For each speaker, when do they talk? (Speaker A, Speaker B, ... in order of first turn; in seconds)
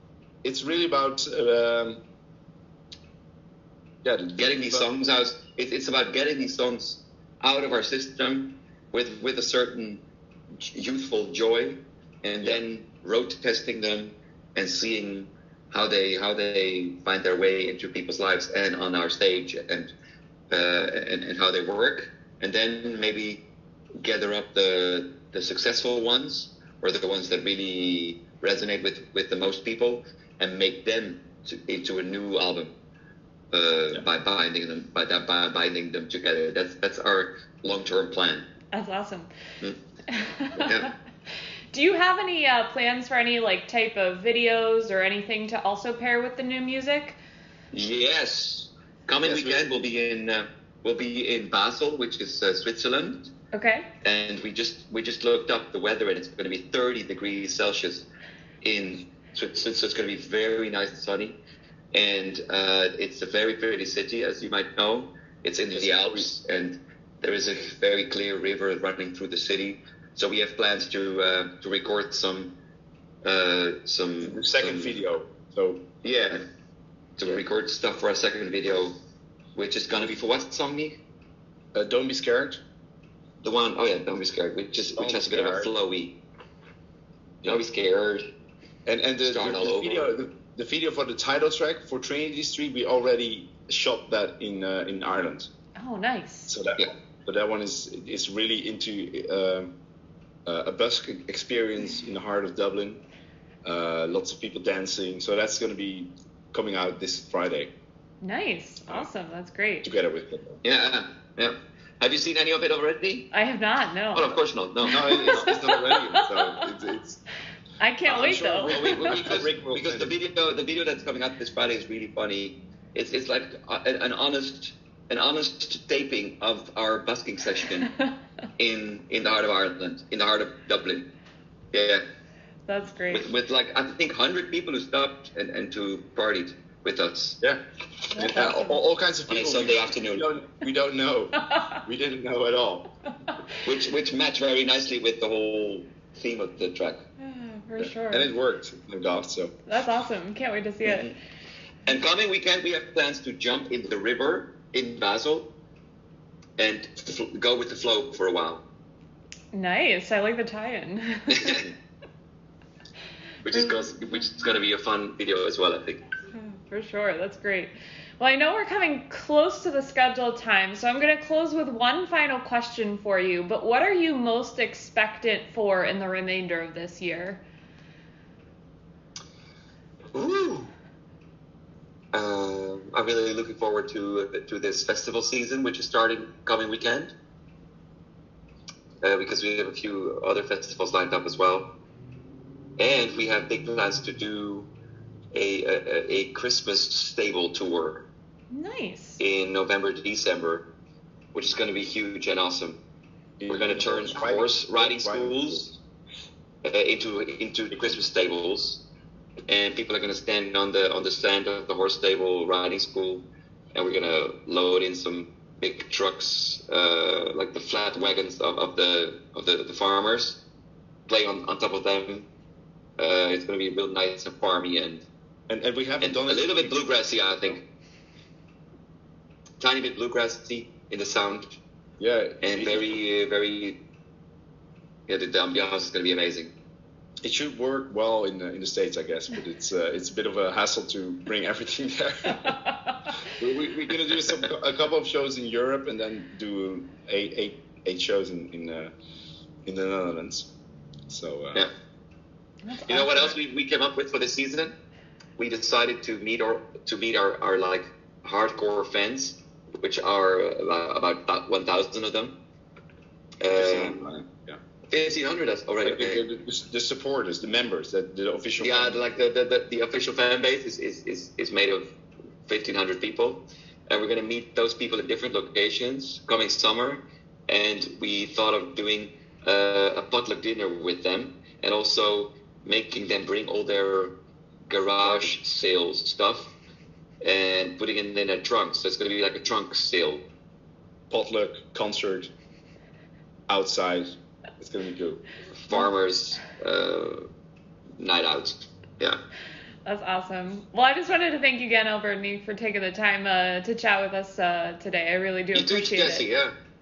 Speaker A: 0.4-2.0, 4.0-4.9, 49.2-49.6, 65.7-66.3, 74.2-75.8, 81.7-82.6, 84.9-85.7, 88.8-95.5, 96.5-99.7, 100.5-103.0, 103.6-107.7, 109.8-110.6, 114.9-117.2, 118.0-120.1, 138.1-142.8, 147.8-149.5, 203.4-205.8, 225.5-226.8, 232.0-232.9, 237.2-242.6, 243.3-248.9, 249.7-250.5, 251.1-251.6, 263.6-264.6, 265.8-269.1, 285.0-285.3, 291.1-292.3, 293.5-295.2
Speaker B: 4.4-10.0, 10.6-19.9, 20.5-23.4, 24.0-32.7, 33.5-38.5, 40.6-40.9, 47.7-53.3, 54.0-58.1, 58.6-61.4, 61.9-72.5, 73.2-75.0, 76.0-76.4, 77.2-78.9, 79.5-81.0, 83.4-86.2, 87.4-88.3, 89.2-90.1, 110.6-113.3, 114.1-115.6, 118.6-127.9, 128.6-131.1, 131.7-132.0, 133.1-137.4, 139.3-140.3, 143.6-147.0, 150.8-151.2, 151.8-155.5, 156.6-158.6, 161.3-161.7, 163.4-166.0, 180.1-180.7, 182.1-187.1, 189.0-191.7, 192.8-194.7, 195.3-198.1, 199.2-200.7, 201.3-202.8, 203.5-205.7, 206.6-208.8, 209.5-220.4, 221.1-222.3, 223.0-225.0, 226.0-227.6, 229.6-231.6, 232.4-233.8, 235.1-236.5, 252.9-254.8, 255.4-262.4, 263.4-264.0, 264.9-266.2, 268.6-271.9, 272.5-284.1, 284.7-286.5, 287.2-290.2, 295.6-297.2, 298.0-299.2, 305.5-306.5
Speaker C: 38.7-39.3, 40.1-40.8, 41.7-47.2, 53.5-53.9, 95.8-96.5, 108.2-109.9, 113.3-116.6, 117.8-119.4, 132.7-133.2, 138.1-138.8, 141.5-141.8, 147.2-148.3, 149.7-151.1, 159.5-161.6, 163.5-163.8, 166.3-177.4, 198.5-199.2, 242.4-243.1, 252.6-253.4, 299.9-306.3